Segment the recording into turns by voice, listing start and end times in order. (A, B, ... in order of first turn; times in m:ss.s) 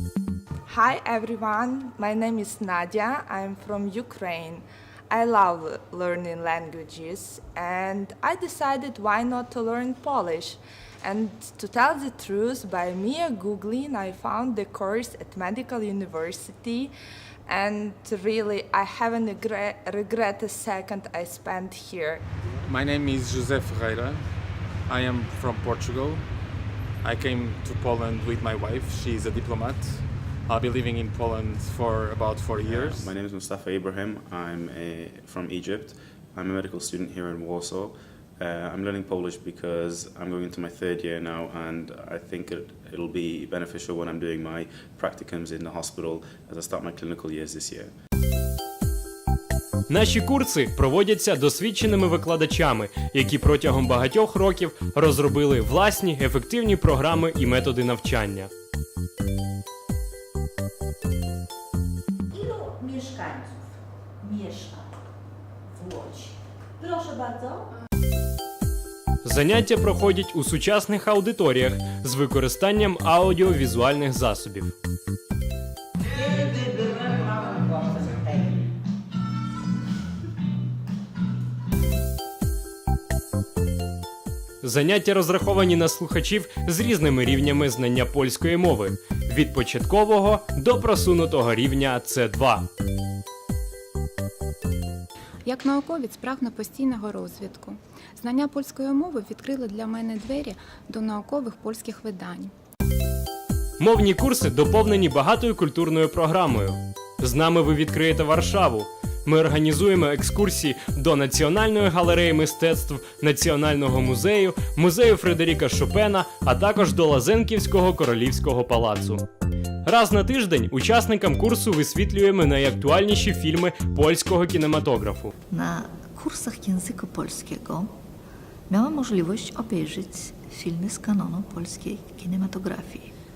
0:00.7-0:16.9 A
0:17.5-0:22.2 A
0:22.6-0:24.3 B
0:24.9-0:26.3 B
0:27.0-0:33.1 B
0:32.6-0:47.9 C
0:49.9-0:58.5 D
1:02.3-1:03.5 E
1:04.2-1:04.8 E
1:05.7-1:07.6 E
1:09.2-1:14.7 D
1:17.1-1:17.9 E
1:24.6-1:32.7 D
1:35.4-1:42.5 F
1:43.8-1:59.2 D
1:59.8-2:05.3 D
2:05.5-2:07.9 G
2:08.7-2:13.1 G